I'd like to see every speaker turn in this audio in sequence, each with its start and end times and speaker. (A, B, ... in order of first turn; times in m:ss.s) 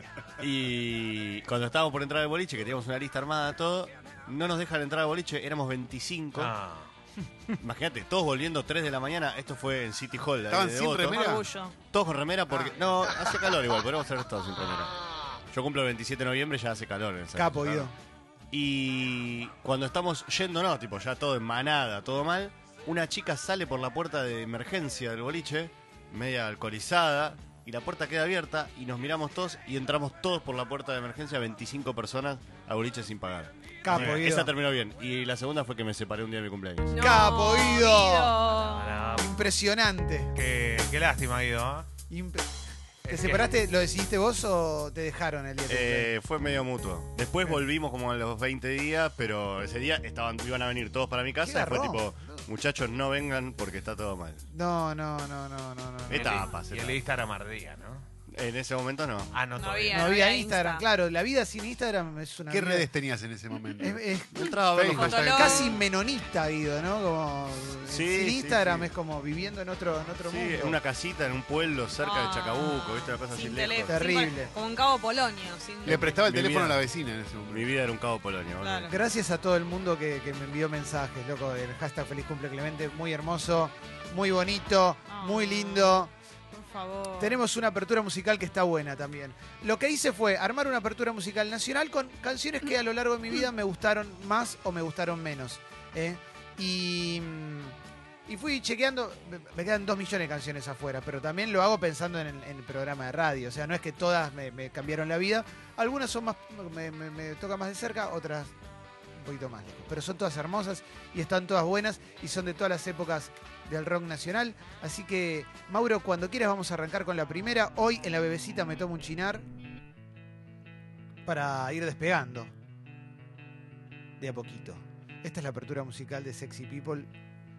0:00.4-0:06.5 A
0:06.4-0:06.9 B
0:07.6-0:11.3 A
0:10.5-0:11.4 C
0:11.1-0:11.7 D
0:11.8-0:14.9 A
0:15.5-0:17.9 A
0:17.3-0:17.9 E
0:18.5-0:37.0 A
0:33.8-0:34.5 E
0:33.9-0:34.3 B
0:36.9-0:39.0 D
0:37.0-0:38.4 E
0:38.7-0:39.5 B
0:39.2-0:40.3 E
0:40.4-0:41.9 B
0:42.1-0:42.5 E
0:43.1-0:43.5 B
0:43.1-0:46.1 E
0:45.7-0:54.4 A
0:51.4-0:52.4 E
0:54.5-0:56.5 E
0:56.1-0:57.0 A
0:56.1-0:58.1 B
0:58.3-0:59.3 A
0:59.3-1:00.2 B
0:59.6-1:00.8 D
0:59.9-1:02.9 E
1:02.5-1:04.0 C
1:03.8-1:04.6 E
1:04.4-1:05.7 A
1:04.7-1:05.6 C
1:04.9-1:05.8 D
1:05.2-1:10.8 E
1:07.8-1:08.9 A
1:10.2-1:14.2 A
1:12.0-1:16.2 D
1:13.9-1:14.5 E
1:15.8-1:17.7 C
1:15.9-1:16.8 A
1:17.5-1:18.9 A
1:18.6-1:19.0 D
1:18.9-1:26.1 E
1:25.1-1:27.4 D
1:27.2-1:37.8 E
1:38.3-1:48.5 E
1:49.2-1:59.4 E
2:01.3-2:02.5 E
2:04.2-2:07.1 E